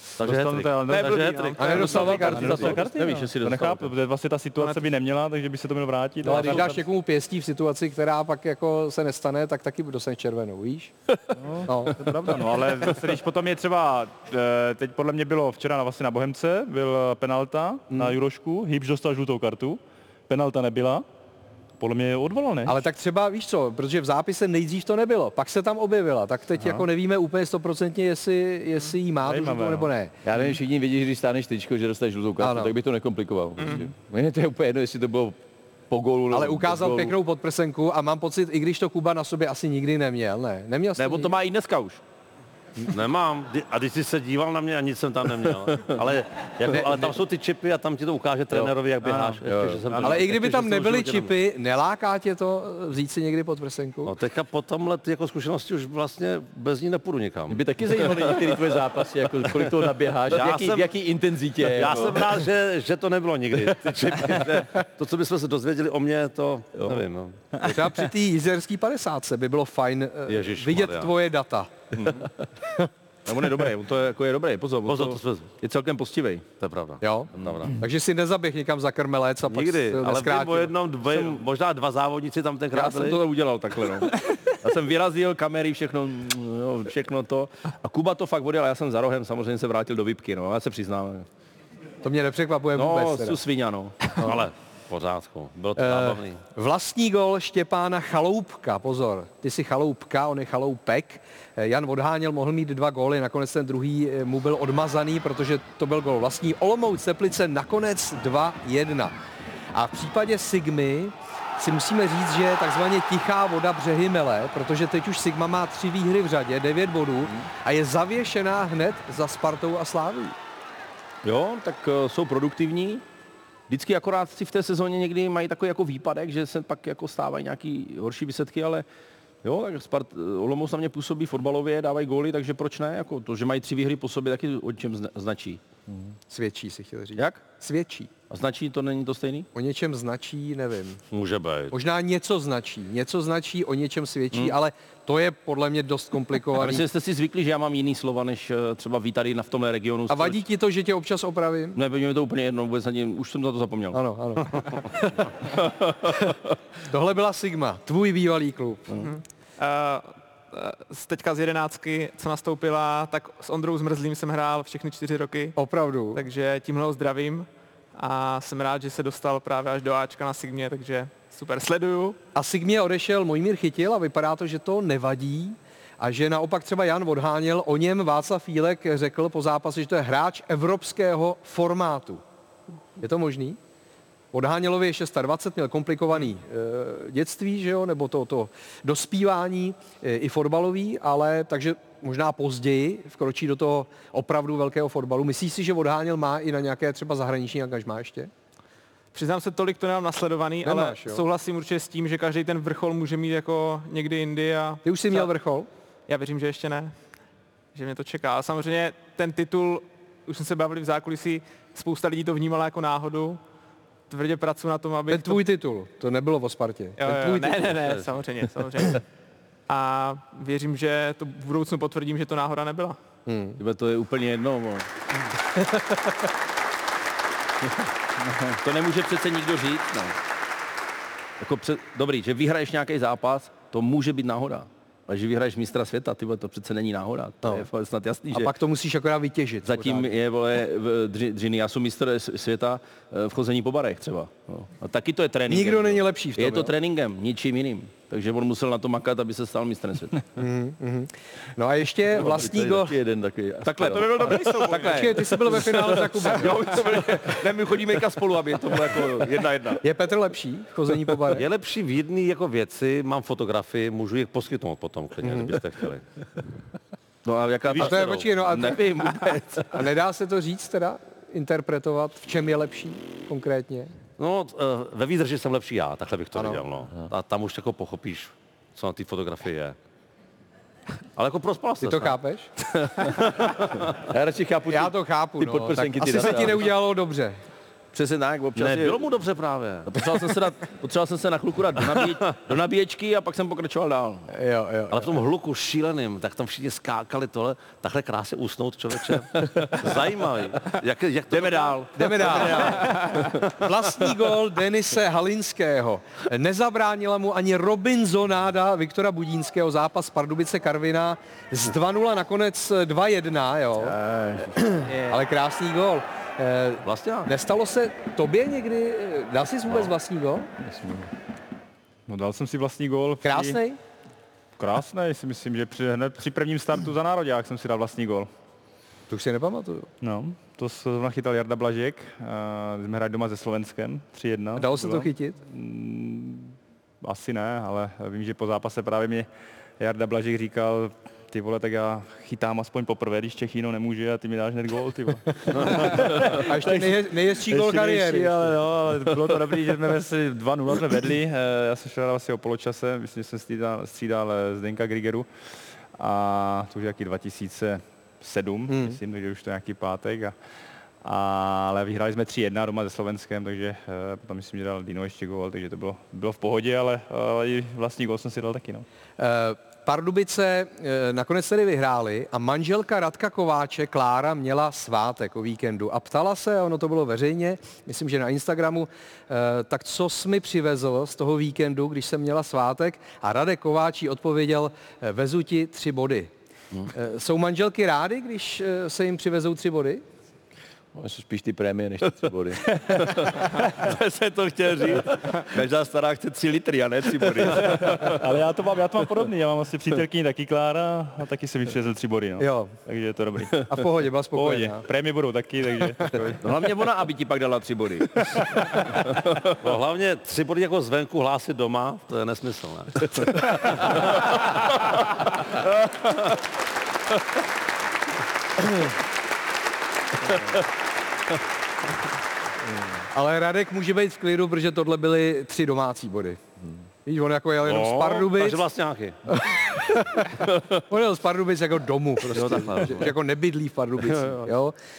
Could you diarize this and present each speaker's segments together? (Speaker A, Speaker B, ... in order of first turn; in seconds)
Speaker A: 0.2-2.8, 42.9-51.3, 54.0-58.4, 60.3-60.9, 61.7-67.4, 70.3-71.1, 74.9-75.5, 76.6-77.7, 79.5-83.2, 94.2-96.4, 141.1-141.7, 217.8-218.0, 261.3-266.0, 267.8-268.2, 274.2-279.8, 281.2-282.2, 288.6-289.9, 294.9-302.9, 409.6-414.3, 427.6-429.2, 432.3-433.1
Speaker B: 0.2-6.8, 11.3-21.0, 21.8-22.8, 29.2-29.9, 49.0-50.2, 322.1-323.6, 324.6-328.3, 330.0-339.3, 339.8-355.3, 355.9-360.3, 361.0-368.8, 397.7-403.7, 404.3-406.4
Speaker C: 0.9-2.6, 4.6-4.8, 33.6-33.9, 159.0-165.5, 166.1-172.2, 199.1-205.3, 206.1-206.9, 207.7-213.4, 214.1-215.4, 217.0-219.0, 219.7-223.0, 302.8-303.3
Speaker D: 1.6-2.7, 6.2-10.9, 11.7-12.0, 22.6-30.1, 32.4-32.7, 36.3-41.3, 46.7-47.1, 50.0-54.1, 67.6-71.7, 77.0-80.7, 92.0-93.4, 95.8-109.1, 109.7-120.3, 136.3-138.1, 139.5-141.0, 141.7-146.8, 150.1-151.8, 153.9-155.2, 156.9-158.9, 165.6-166.2, 172.3-182.2, 183.0-183.6, 184.3-198.3, 200.6-201.2, 204.8-205.7, 215.1-217.7, 223.3-223.6, 238.3-240.1, 245.5-246.7, 250.4-252.9, 254.7-256.8, 259.8-261.4, 265.2-265.5, 267.8-268.9, 269.7-273.9, 276.4-276.6, 281.8-282.5, 284.7-287.4, 294.3-295.1, 301.9-313.9, 314.5-320.5, 323.2-323.8, 329.1-329.9, 334.6-335.4, 345.7-348.5, 358.7-359.0, 369.2-386.3, 386.9-390.0, 402.4-402.7, 403.7-404.8, 423.1-426.4, 427.0-428.6, 429.3-430.3, 430.9-434.7
Speaker E: 1.8-3.9, 41.0-42.0, 73.2-76.5, 81.1-81.4, 82.7-91.2, 92.7-94.0, 121.2-123.0, 123.7-128.8, 129.4-135.6, 137.2-137.4, 138.3-139.5, 146.6-150.4, 151.8-154.0, 155.5-156.3, 223.6-224.9, 228.6-230.1, 231.4-238.5, 239.6-250.2, 253.6-259.8, 267.2-269.8, 287.9-289.0, 289.9-294.3, 301.3-302.7, 313.8-314.6, 316.9-317.3, 392.8-398.2, 406.4-408.3
Speaker F: 30.2-35.4, 35.9-37.1, 49.4-50.0, 57.5-62.4, 252.2-254.5, 284.1-286.7, 320.6-321.1, 390.9-392.8